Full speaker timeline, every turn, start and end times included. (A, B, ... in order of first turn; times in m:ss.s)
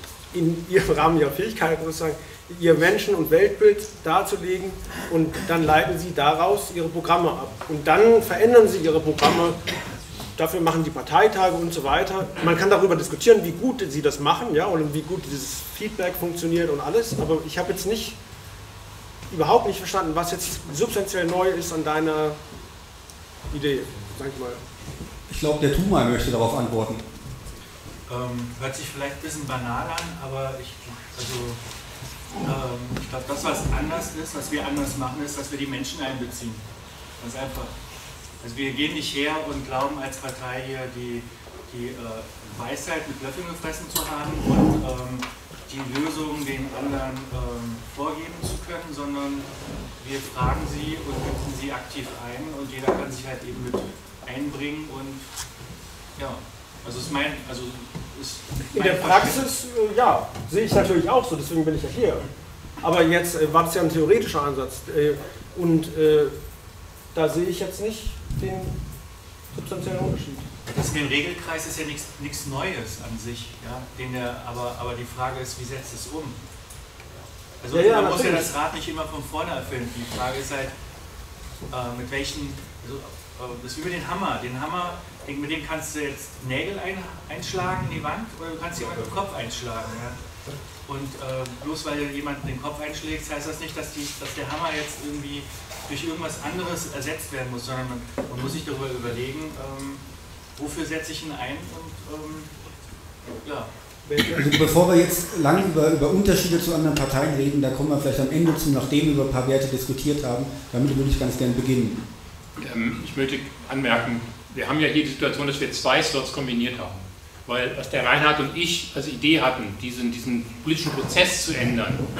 0:00.3-0:09.6 A
0:10.3-0:18.2 A
0:19.3-0:22.4 A
0:23.5-0:24.6 A
0:25.3-0:27.1 B
0:28.1-0:31.6 C
0:32.4-0:36.6 C
0:37.2-0:37.7 C
0:38.4-0:55.2 C
0:56.2-0:59.5 C
0:58.7-1:02.2 A
1:02.8-1:06.4 A
1:07.1-1:08.8 A
1:09.5-1:10.5 A
1:10.7-1:16.4 C
1:17.6-1:20.7 C
1:17.7-1:18.5 A
1:21.7-1:30.2 C
1:30.9-1:40.0 C
1:40.6-1:42.5 C
1:43.4-1:43.7 C
1:44.1-1:44.3 A
1:44.3-1:52.0 B
1:52.6-2:02.0 D